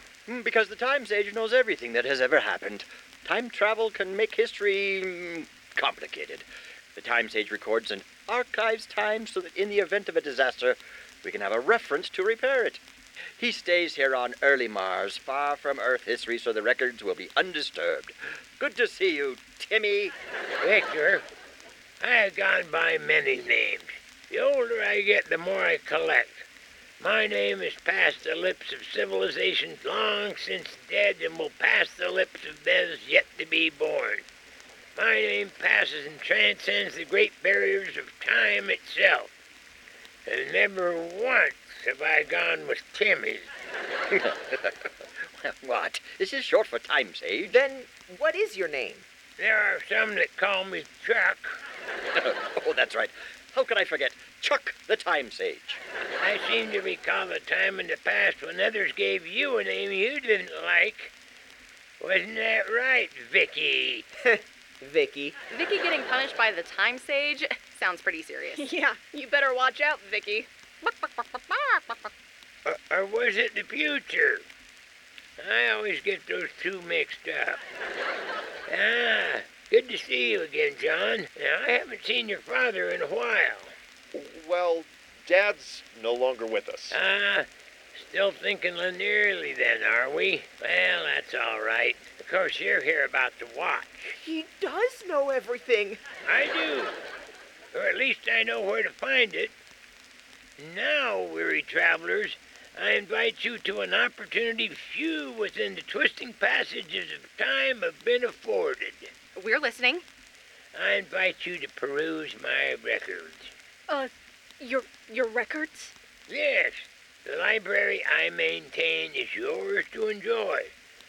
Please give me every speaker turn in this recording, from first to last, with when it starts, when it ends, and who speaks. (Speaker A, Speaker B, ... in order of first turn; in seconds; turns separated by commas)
Speaker A: 0.3-12.8, Speaker A: 13.4-20.2, Speaker B: 20.6-21.2, Speaker B: 22.0-26.5, Speaker B: 27.0-34.2, Speaker B: 35.0-39.3, Speaker B: 40.3-43.5, Speaker A: 44.1-47.6, Speaker C: 47.5-49.1, Speaker B: 49.4-51.6, Speaker A: 52.2-55.8, Speaker B: 56.2-61.1, Speaker B: 62.0-64.1, Speaker C: 64.2-65.4, Speaker D: 65.5-68.7, Speaker E: 68.5-70.5, Speaker B: 72.7-74.5, Speaker B: 75.4-77.6, Speaker B: 78.7-83.7, Speaker F: 84.1-87.0, Speaker B: 86.9-94.2, Speaker C: 94.1-96.0, Speaker B: 96.3-97.0, Speaker B: 97.7-99.5, Speaker B: 100.6-109.1, Speaker D: 109.3-110.0, Speaker B: 110.7-113.5, Speaker E: 113.9-116.0, Speaker B: 116.3-120.7